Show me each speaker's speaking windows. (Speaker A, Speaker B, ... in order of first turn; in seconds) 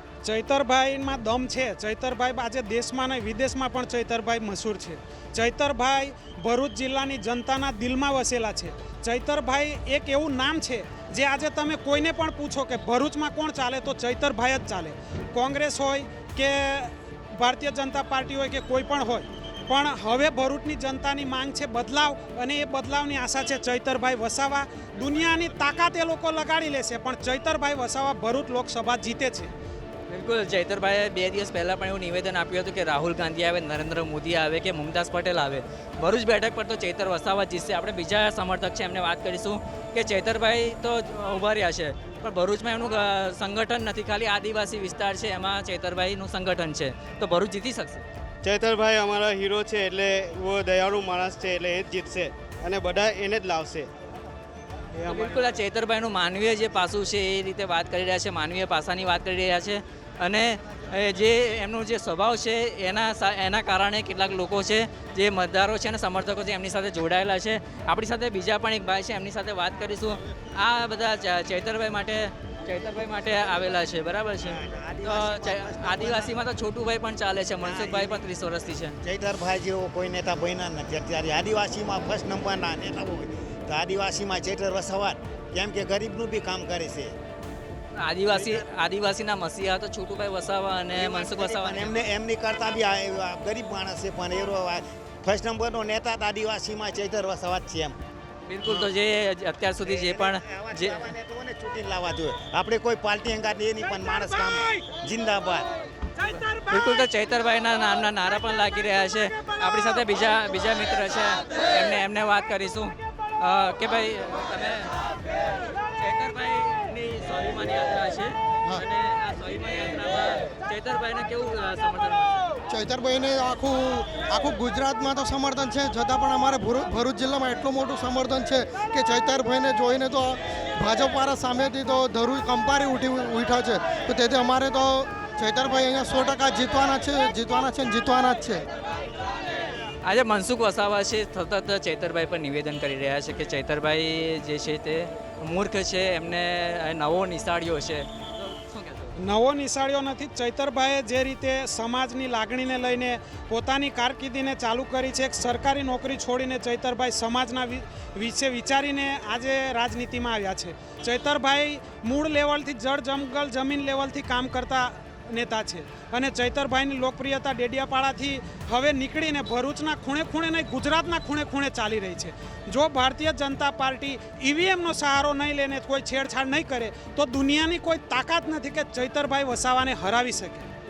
Speaker A: 0.2-29.5, 149.2-180.7
Speaker B: 30.1-48.0, 55.1-79.0, 88.0-92.0, 98.5-101.1, 106.7-114.9, 115.9-122.4, 140.0-149.1
Speaker C: 48.4-53.9, 55.0-55.3
Speaker D: 74.4-76.4, 77.6-78.2, 79.0-87.1, 88.3-88.7, 90.9-98.0, 98.6-98.9, 99.8-105.7
Speaker E: 122.7-138.6